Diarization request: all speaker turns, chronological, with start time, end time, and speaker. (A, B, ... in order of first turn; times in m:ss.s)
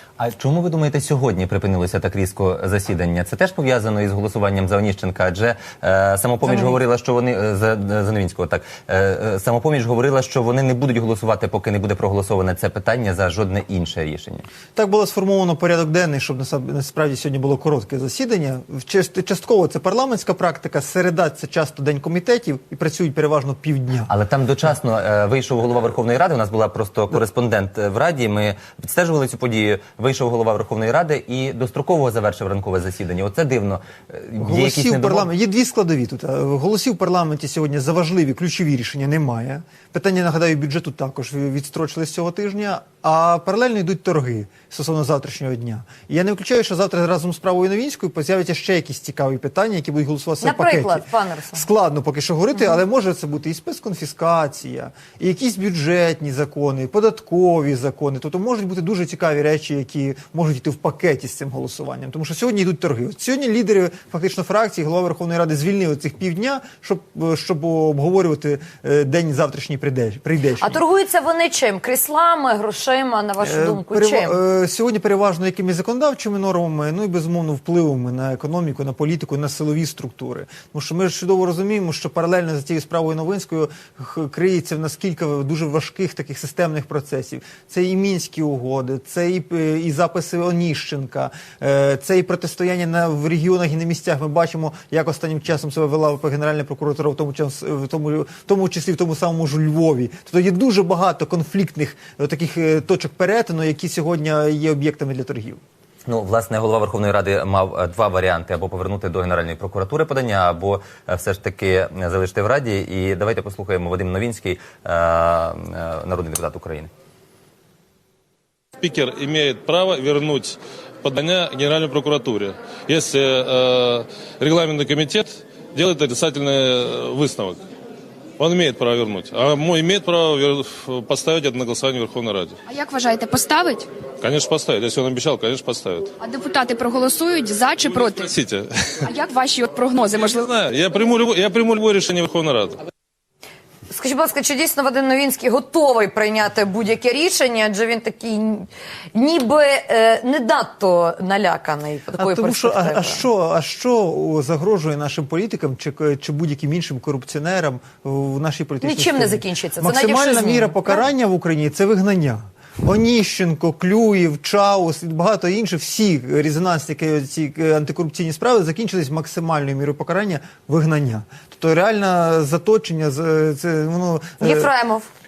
0:00.2-0:14.5 A
0:06.4-0:06.8 B
0:14.7-0:24.1 B
0:24.1-0:35.3 A
0:34.4-1:10.8 B
0:50.4-0:51.6 C
1:10.6-1:14.4 C
1:13.4-1:45.6 B
1:46.0-1:56.9 A
1:58.8-2:07.6 D
2:08.4-2:12.6 D
2:12.6-2:13.9 E
2:14.2-2:16.1 D
2:16.2-2:18.3 E
2:18.2-2:18.6 D
2:19.1-2:20.5 E
2:20.3-2:22.7 D
2:23.9-2:33.2 C
2:32.1-2:54.7 B
2:38.8-2:41.0 C
2:54.4-2:55.1 C